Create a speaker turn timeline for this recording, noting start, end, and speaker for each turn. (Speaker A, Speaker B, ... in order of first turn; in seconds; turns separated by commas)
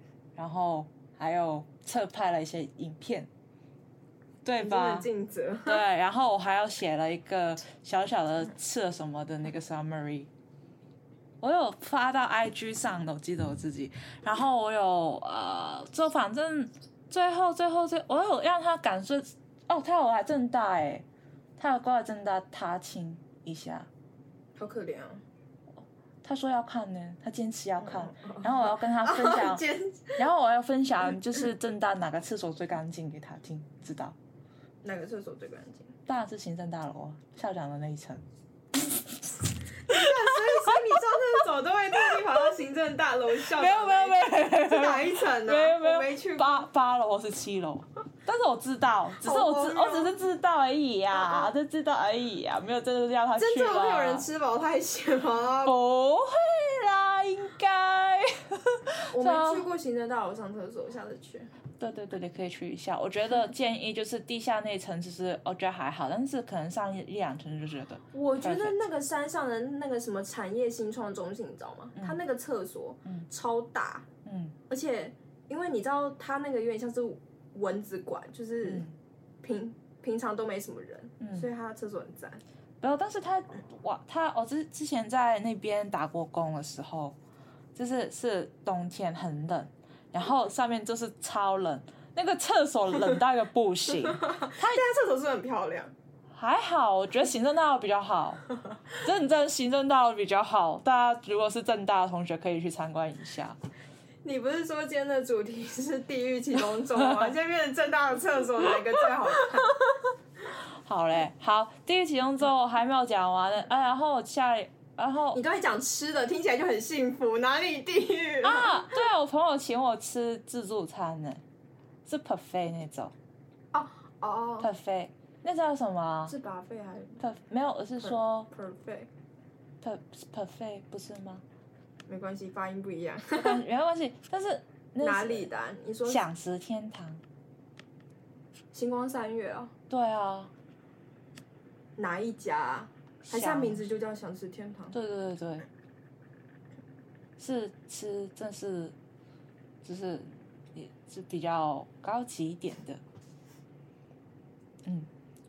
Speaker A: 0.4-3.3, Speaker A: 4.4-5.1, Speaker B: 4.6-5.8, Speaker A: 5.6-10.3, Speaker A: 11.4-21.1, Speaker A: 21.6-23.9, Speaker B: 24.6-25.2, Speaker A: 26.2-29.6, Speaker B: 27.8-30.2, Speaker A: 30.1-34.2, Speaker B: 34.8-35.9, Speaker A: 36.1-38.2, Speaker B: 39.8-46.7, Speaker A: 39.9-40.8, Speaker A: 43.5-54.3, Speaker B: 49.2-50.1, Speaker B: 51.2-51.5, Speaker B: 53.4-55.8, Speaker A: 55.6-59.7, Speaker B: 59.1-61.5, Speaker A: 61.8-68.8, Speaker B: 68.1-74.1, Speaker A: 74.2-74.6, Speaker B: 74.7-78.8, Speaker A: 78.6-79.0, Speaker B: 79.4-82.4, Speaker A: 81.2-81.5, Speaker A: 82.8-87.2, Speaker A: 87.8-94.8, Speaker B: 94.0-95.9, Speaker A: 96.3-103.6, Speaker B: 104.2-109.8, Speaker A: 106.9-107.3, Speaker A: 110.8-115.4, Speaker B: 115.3-119.0, Speaker A: 118.4-121.4, Speaker A: 122.0-123.1, Speaker B: 123.7-124.7, Speaker A: 124.6-126.3, Speaker B: 126.3-127.2, Speaker A: 127.2-128.5, Speaker B: 128.0-129.1, Speaker A: 129.8-131.4, Speaker B: 132.1-133.6, Speaker A: 133.3-135.5, Speaker B: 135.0-136.2, Speaker A: 136.1-137.2, Speaker B: 138.7-139.7, Speaker A: 139.9-140.5, Speaker B: 142.0-144.9, Speaker A: 143.2-143.8, Speaker A: 144.9-145.7, Speaker A: 147.4-148.9, Speaker A: 149.8-153.0